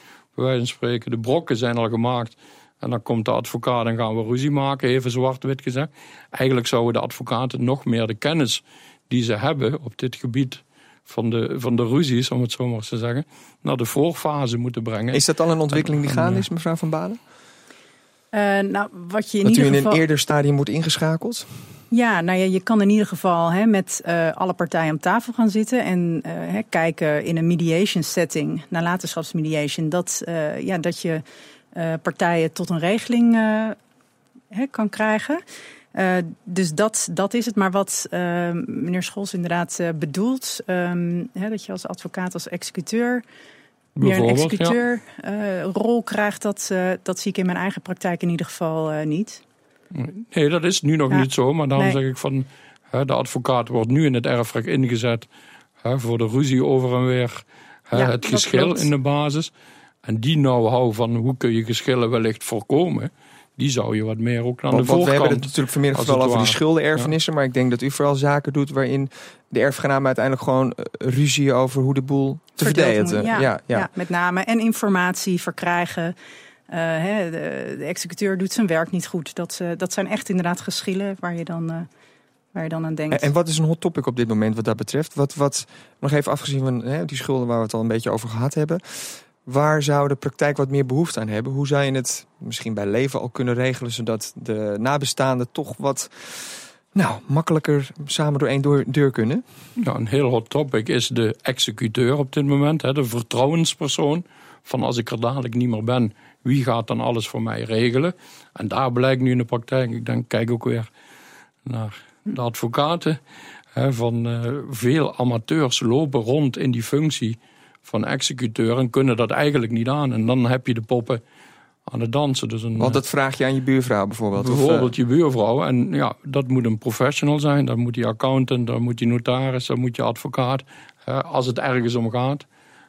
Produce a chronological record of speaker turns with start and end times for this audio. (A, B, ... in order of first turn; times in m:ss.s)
0:00.4-0:16.4 A
0:15.1-0:17.2 B
0:18.3-0:20.0 C
0:19.4-0:21.5 B
0:21.9-0:31.2 C
0:31.7-0:33.8 C
0:34.5-0:35.4 C
0:35.9-0:43.2 C
0:44.0-0:44.8 A
0:44.0-0:49.4 C
0:49.9-0:55.3 A
0:51.1-0:52.0 C
0:55.8-0:59.5 A
0:57.9-0:58.9 C
1:00.0-1:07.1 A
1:04.7-1:13.9 B
1:12.6-1:16.2 C
1:16.7-1:21.9 C
1:22.5-1:23.3 C
1:23.1-1:39.4 B
1:39.8-1:50.9 A
1:51.6-1:53.2 A
1:53.8-2:01.2 A
2:01.9-2:03.0 A
2:02.8-2:04.9 B
2:04.4-2:12.4 A